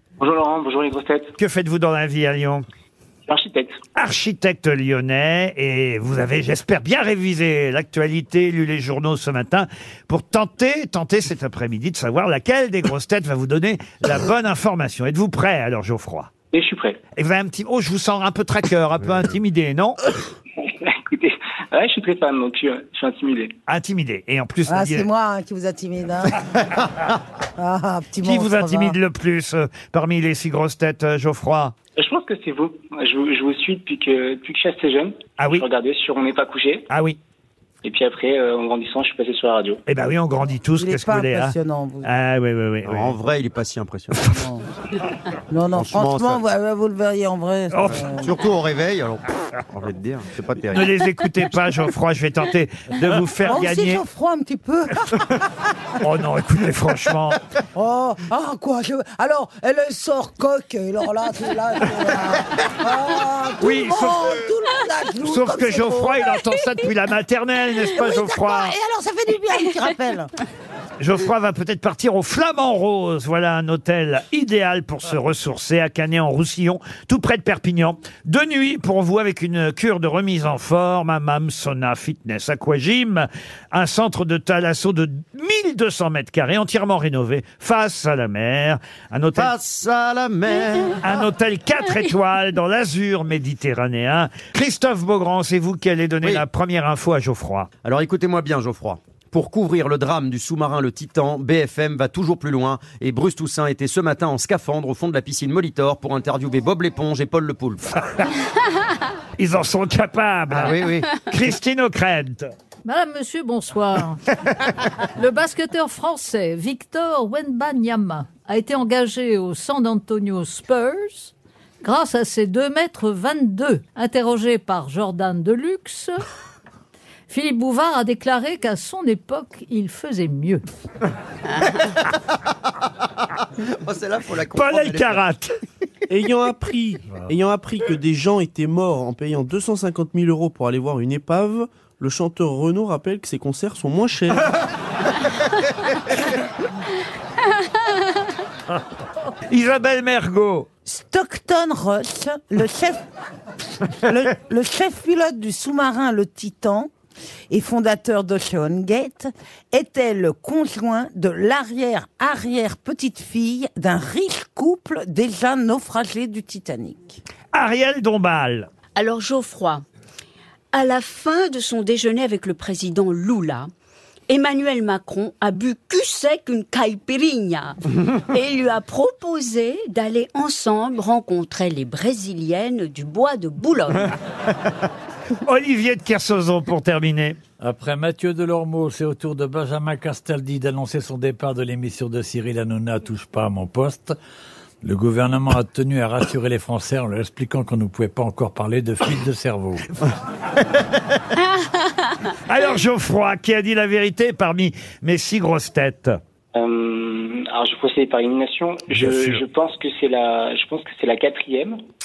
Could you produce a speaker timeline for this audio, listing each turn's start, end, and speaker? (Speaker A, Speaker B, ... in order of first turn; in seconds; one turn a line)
Speaker A: 0.2-1.3
Speaker B: 1.4-2.6
Speaker A: 3.3-3.8
Speaker B: 4.0-16.3
Speaker A: 16.5-17.0
Speaker B: 17.2-20.0
Speaker A: 20.6-23.6
Speaker B: 23.7-25.1
Speaker C: 24.7-26.5
Speaker C: 27.6-29.0
Speaker B: 28.2-31.7
Speaker A: 32.0-36.9
Speaker B: 36.9-37.2
Speaker A: 37.8-39.8
Speaker B: 39.9-43.2
Speaker C: 40.8-42.1
Speaker D: 42.9-44.3
Speaker C: 44.3-44.7
Speaker C: 45.5-48.3
Speaker D: 45.7-46.4
Speaker B: 47.7-48.0
Speaker D: 48.0-50.9
Speaker B: 50.7-54.0
Speaker C: 53.4-55.4
Speaker B: 56.0-57.4
Speaker C: 57.8-66.3
Speaker B: 63.6-64.4
Speaker B: 65.2-68.8
Speaker C: 67.9-70.3
Speaker B: 71.0-89.5
Speaker D: 89.3-91.0
Speaker B: 91.0-97.7
Speaker D: 97.8-108.0
Speaker B: 109.4-112.5
Speaker D: 110.5-111.1
Speaker E: 112.8-114.2
Speaker E: 115.2-126.2
Speaker E: 127.3-130.6
Speaker D: 133.7-135.2
Speaker B: 134.5-135.5
Speaker F: 136.1-144.6
Speaker G: 137.1-137.3
Speaker B: 149.5-150.7
Speaker C: 150.9-153.0
Speaker C: 154.0-156.9
Speaker C: 157.5-167.2
Speaker B: 167.5-168.7
Speaker H: 168.9-169.8
Speaker H: 170.7-173.7
Speaker H: 174.3-184.2
Speaker B: 185.4-187.4
Speaker G: 187.6-194.2
Speaker G: 194.8-199.9
Speaker B: 202.5-206.2
Speaker A: 206.5-211.8
Speaker B: 208.9-209.4